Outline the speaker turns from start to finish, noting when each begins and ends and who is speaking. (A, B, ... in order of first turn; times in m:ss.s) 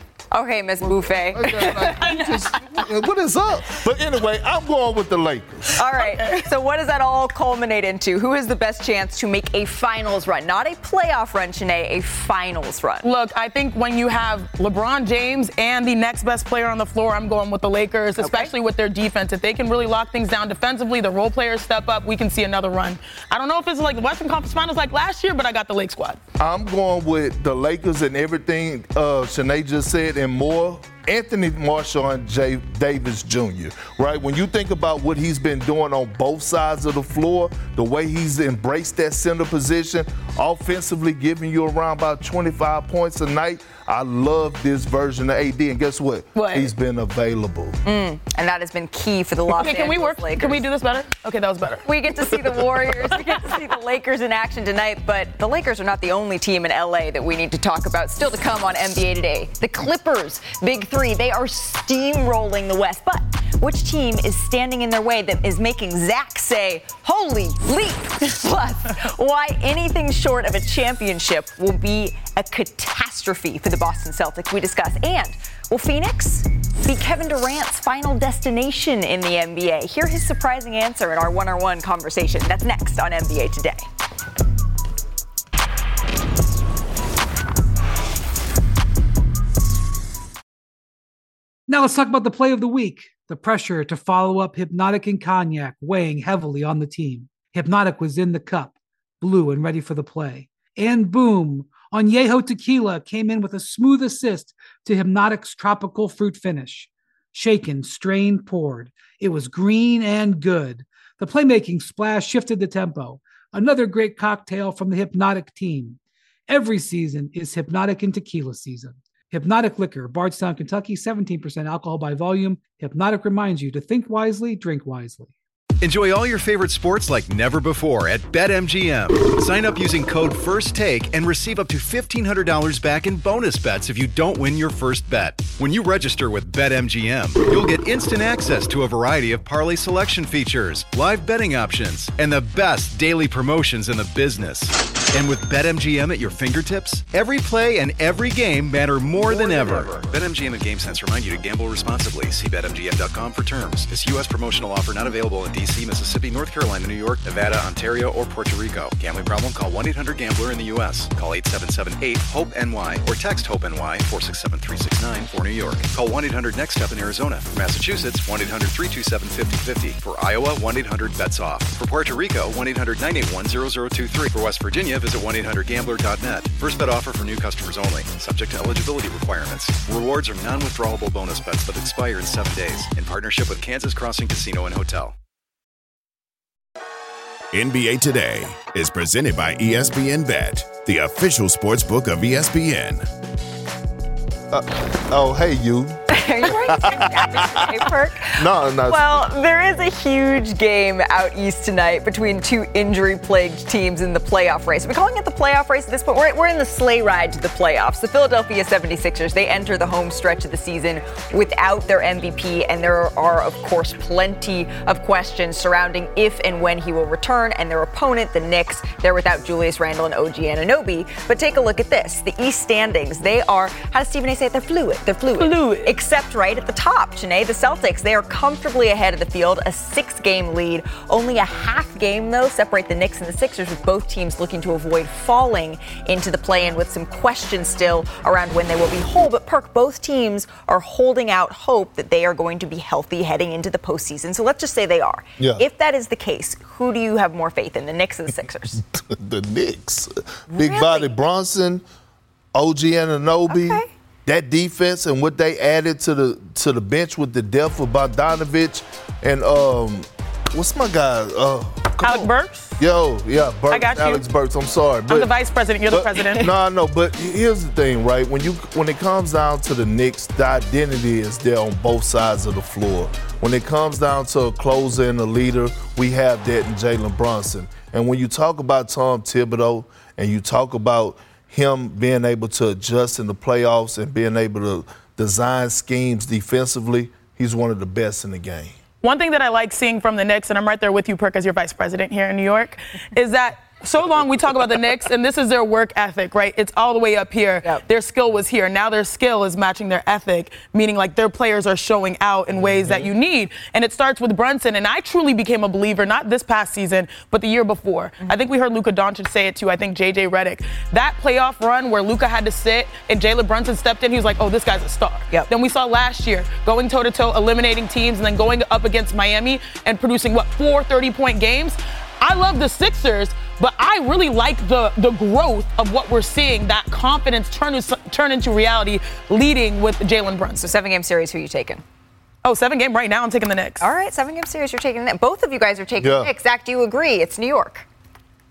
0:00.3-0:02.1 A
0:01.3-0:05.7 B
0:01.6-0:02.8 C
0:05.7-0:13.1 A
0:06.0-0:06.4 C
0:13.0-0:26.2 C
0:18.2-0:18.5 A
0:26.4-0:47.8 B
0:46.3-0:46.7 C
0:47.8-0:50.6 A
0:49.5-0:53.1 C
0:51.8-1:23.8 A
1:31.7-1:56.0 D
1:56.5-2:05.3 D
2:05.8-3:05.1 E
3:07.5-3:13.1 F
3:14.5-3:19.2 B
3:16.1-4:08.8 A
3:45.4-3:45.9 C
4:05.4-4:05.6 B
4:08.9-4:11.8 B
4:10.5-4:11.1 A
4:12.5-4:25.3 B
4:13.5-4:13.9 A
4:22.0-4:22.8 C
4:23.7-4:24.2 C
4:25.1-4:26.4 C
4:25.9-4:48.8 B
4:49.0-5:30.7 C
5:30.6-5:31.8 A
5:32.4-5:33.8 C
5:33.8-5:37.8 A
5:36.0-5:36.3 B